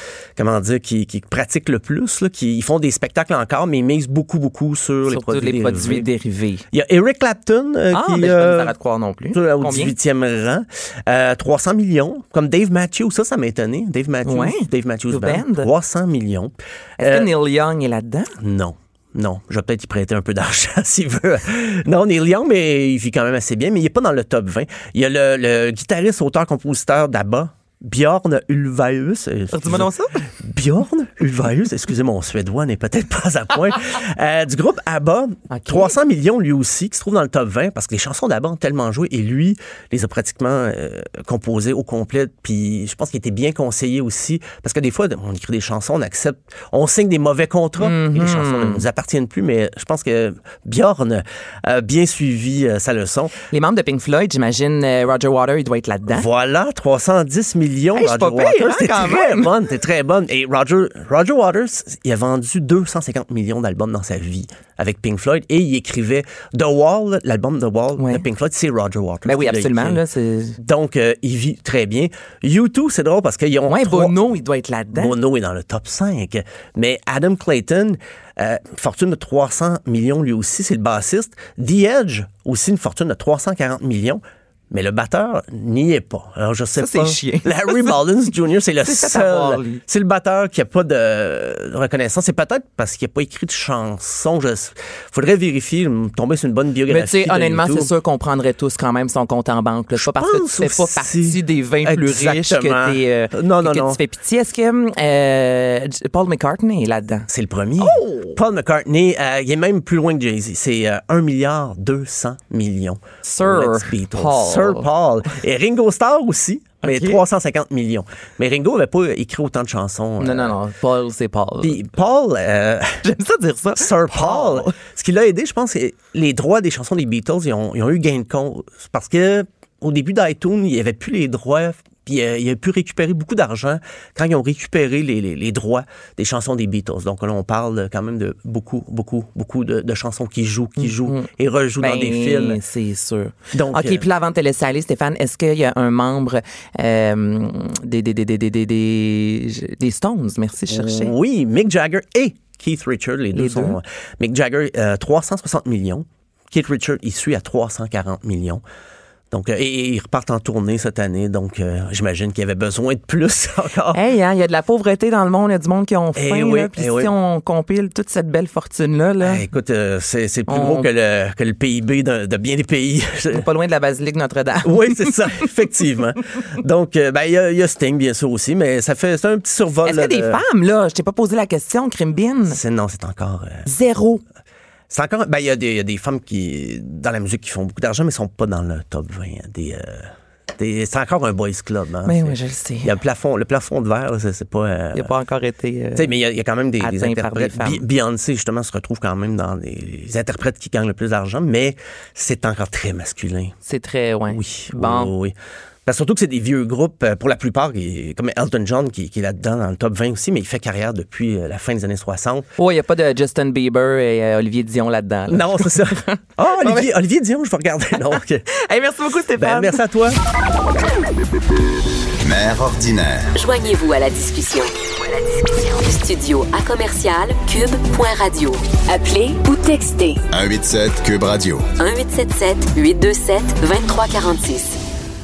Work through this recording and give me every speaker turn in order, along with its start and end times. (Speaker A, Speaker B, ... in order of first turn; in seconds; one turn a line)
Speaker A: 0.4-6.1
Speaker B: 5.0-6.6
Speaker A: 6.7-8.7
Speaker B: 7.9-9.9
Speaker A: 9.3-17.3
Speaker B: 14.2-15.7
Speaker B: 17.0-18.3
Speaker A: 18.4-29.9
Speaker B: 29.5-30.3
Speaker A: 30.4-53.4
Speaker B: 35.5-36.0
Speaker B: 47.8-48.8
Speaker B: 53.5-56.3
Speaker A: 56.1-70.0
Speaker B: 57.9-59.5
Speaker B: 68.0-68.2
Speaker B: 69.2-70.6
Speaker A: 70.6-74.2
Speaker B: 73.6-75.2
Speaker A: 74.9-97.9
Speaker B: 86.8-88.0
Speaker B: 88.8-89.8
Speaker B: 96.9-107.3
Speaker A: 100.0-104.0
Speaker A: 107.3-120.5
Speaker B: 107.8-108.4
Speaker B: 113.2-114.9
Speaker B: 116.8-117.2
Speaker B: 120.2-121.9
Speaker A: 121.6-123.0
Speaker B: 123.0-124.8
Speaker A: 123.8-142.6
Speaker B: 140.8-151.1
Speaker A: 143.5-144.0
Speaker A: 150.7-158.6
Speaker B: 153.3-153.8
Speaker A: 159.3-164.0
Speaker B: 163.9-169.4
Speaker A: 166.2-167.1
Speaker A: 169.2-173.4
Speaker B: 170.5-170.9
Speaker B: 173.3-175.3
Speaker A: 174.6-180.4
Speaker B: 179.8-182.6
Speaker A: 182.5-183.6
Speaker B: 183.6-184.2
Speaker A: 184.9-195.1
Speaker B: 192.0-192.9
Speaker B: 194.9-196.1
Speaker A: 195.9-203.5
Speaker B: 196.8-197.8
Speaker B: 203.7-205.1
Speaker A: 204.3-205.3
Speaker A: 205.8-212.5
Speaker B: 212.6-216.9
Speaker A: 215.3-218.5
Speaker B: 217.9-219.8
Speaker A: 219.3-220.2
Speaker C: 222.2-223.3
Speaker D: 223.3-230.2
Speaker C: 230.3-231.7
Speaker D: 231.8-234.8